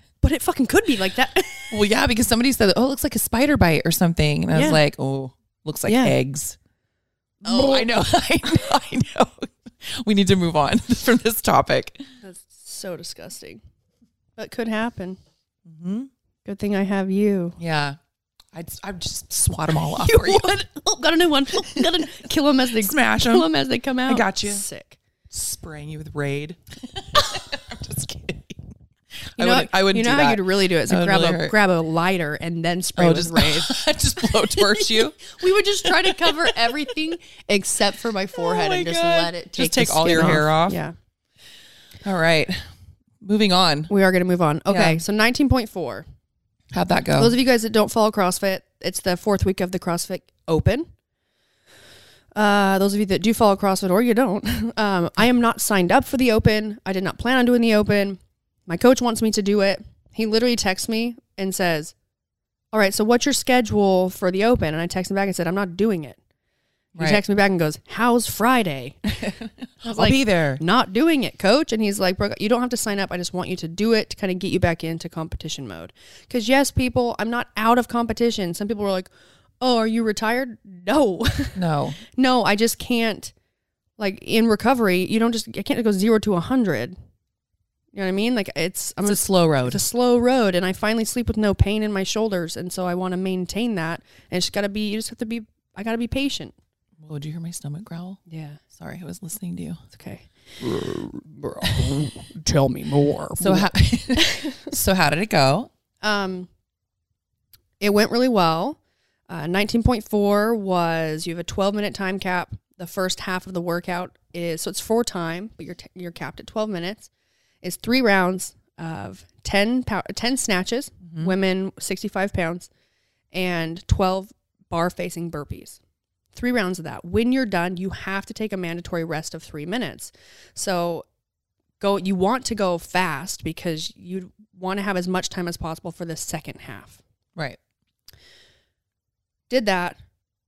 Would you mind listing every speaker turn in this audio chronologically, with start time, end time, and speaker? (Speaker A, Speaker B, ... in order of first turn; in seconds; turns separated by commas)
Speaker A: 0.2-1.8, Speaker B: 1.7-6.5, Speaker A: 4.5-4.8, Speaker A: 5.9-6.2, Speaker A: 7.4-7.9, Speaker B: 7.5-12.0, Speaker A: 12.2-13.6, Speaker A: 14.4-15.2, Speaker B: 15.7-16.1, Speaker A: 16.4-17.6, Speaker B: 17.6-18.0, Speaker B: 18.5-20.5, Speaker A: 19.9-25.0, Speaker B: 22.8-23.5, Speaker B: 24.1-24.6, Speaker B: 25.3-28.6, Speaker B: 29.4-31.5, Speaker A: 29.4-33.8, Speaker B: 33.0-35.3, Speaker A: 34.5-40.9, Speaker B: 35.8-36.4, Speaker B: 38.4-40.8, Speaker B: 42.0-42.7, Speaker B: 43.2-43.9, Speaker A: 43.9-46.0, Speaker B: 44.7-45.0, Speaker B: 46.7-47.3, Speaker A: 47.2-50.9, Speaker A: 52.3-61.9, Speaker A: 62.7-66.2, Speaker B: 66.9-67.2, Speaker A: 67.0-83.3, Speaker B: 69.8-70.6, Speaker B: 81.5-82.0, Speaker A: 84.0-87.0, Speaker A: 87.9-96.5, Speaker B: 89.0-89.8, Speaker B: 97.0-98.2, Speaker A: 98.3-98.6, Speaker B: 98.7-99.8, Speaker A: 99.9-104.7, Speaker B: 103.4-105.7, Speaker A: 106.0-106.5, Speaker A: 107.8-117.1, Speaker A: 117.6-122.7, Speaker A: 123.3-125.8, Speaker A: 126.3-131.0, Speaker A: 131.8-137.0, Speaker A: 139.5-140.0